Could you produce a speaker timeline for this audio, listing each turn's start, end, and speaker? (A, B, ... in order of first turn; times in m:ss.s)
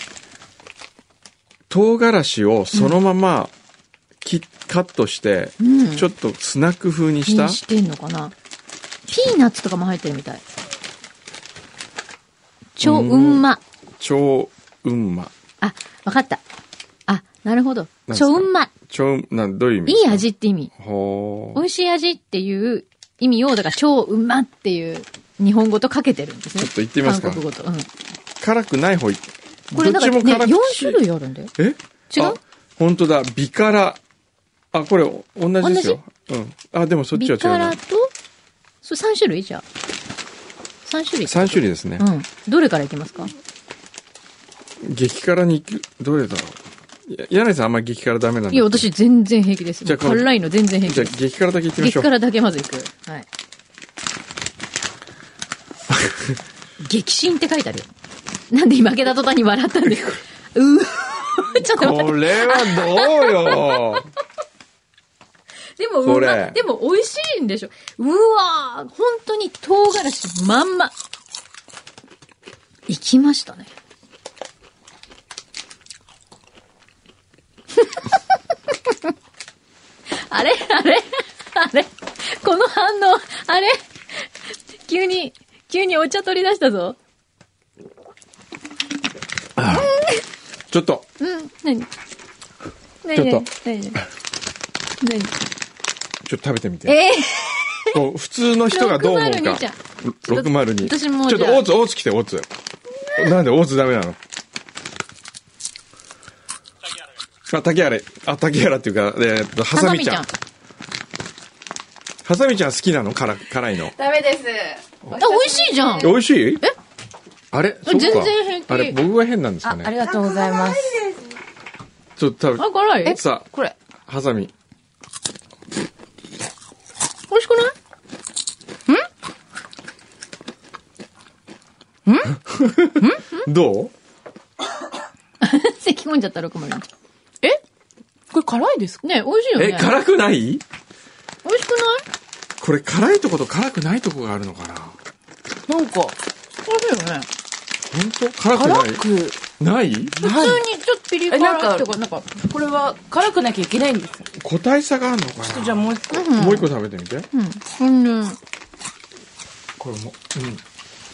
0:01.7-0:03.5 A
0:04.2-0:07.6 A
0:05.6-0:06.1 B
0:07.3-0:08.3 B
0:09.1-0:10.4 B
0:12.8-0:13.6 B
0:12.8-0:13.4 A
0:14.0-0:15.3 A
0:15.6-0:16.4 B
0:17.1-0:18.7 B
0:18.1-0:20.2 A
0:19.9-0:20.7 B
0:20.8-0:21.6 A
0:21.6-0:27.9 B
0:26.6-0:27.4 A
0:28.4-0:31.0 A
0:29.7-0:31.5 B
0:31.6-0:34.0 A
0:32.1-0:32.4 B
0:34.7-0:37.8 A
0:35.6-0:36.0 B
0:37.1-0:38.1 B
0:38.8-0:39.6 B
0:40.8-0:43.3 B
0:41.3-0:42.1 A
0:44.8-0:48.9 A
0:48.5-0:51.1 B
0:49.8-0:50.3 A
0:50.8-0:52.1 A
0:51.8-0:53.3 B
0:55.9-0:56.4 A
0:56.8-0:57.9 B
0:58.5-1:04.0 B
1:01.7-1:04.1 A
1:05.8-1:10.9 B
1:06.0-1:06.6 A
1:12.9-1:13.7 B
1:20.2-1:24.3 B
1:24.8-1:27.0 B
1:29.6-1:29.9 A
1:29.7-1:30.2 B
1:30.7-1:31.1 A
1:31.2-1:31.9 B
1:33.0-1:34.0 B
1:33.2-1:33.5 A
1:35.0-1:35.3 B
1:36.2-1:37.0 A
1:36.9-1:38.0 B
1:37.9-1:42.5 A
1:38.7-1:41.7 B
1:43.2-1:44.2 A
1:47.5-1:50.3 A
1:49.7-1:50.3 B
1:52.2-1:53.9 A
1:53.9-1:56.1 C
1:55.1-1:56.8 B
1:56.0-1:56.6 A
1:57.5-1:59.9 A
1:57.9-1:59.0 B
1:59.6-2:01.2 C
1:59.8-2:00.5 B
2:02.2-2:03.5 A
2:02.6-2:03.2 B
2:03.1-2:03.8 C
2:04.1-2:04.5 A
2:07.3-2:07.7 B
2:12.0-2:12.4 C
2:12.5-2:13.9 A
2:13.0-2:13.4 C
2:15.4-2:16.9 B
2:18.3-2:19.0 C
2:19.0-2:19.9 B
2:19.6-2:20.6 A
2:21.4-2:22.0 B
2:22.6-2:25.0 A
2:25.7-2:26.2 C
2:26.7-2:27.3 B
2:27.9-2:29.0 A
2:28.6-2:29.4 C
2:29.6-2:30.2 A
2:30.2-2:30.6 C
2:30.2-2:32.3 B
2:31.3-2:34.2 C
2:34.4-2:37.3 A
2:35.4-2:36.3 C
2:36.1-2:36.7 B
2:37.3-2:38.4 B
2:39.8-2:40.6 A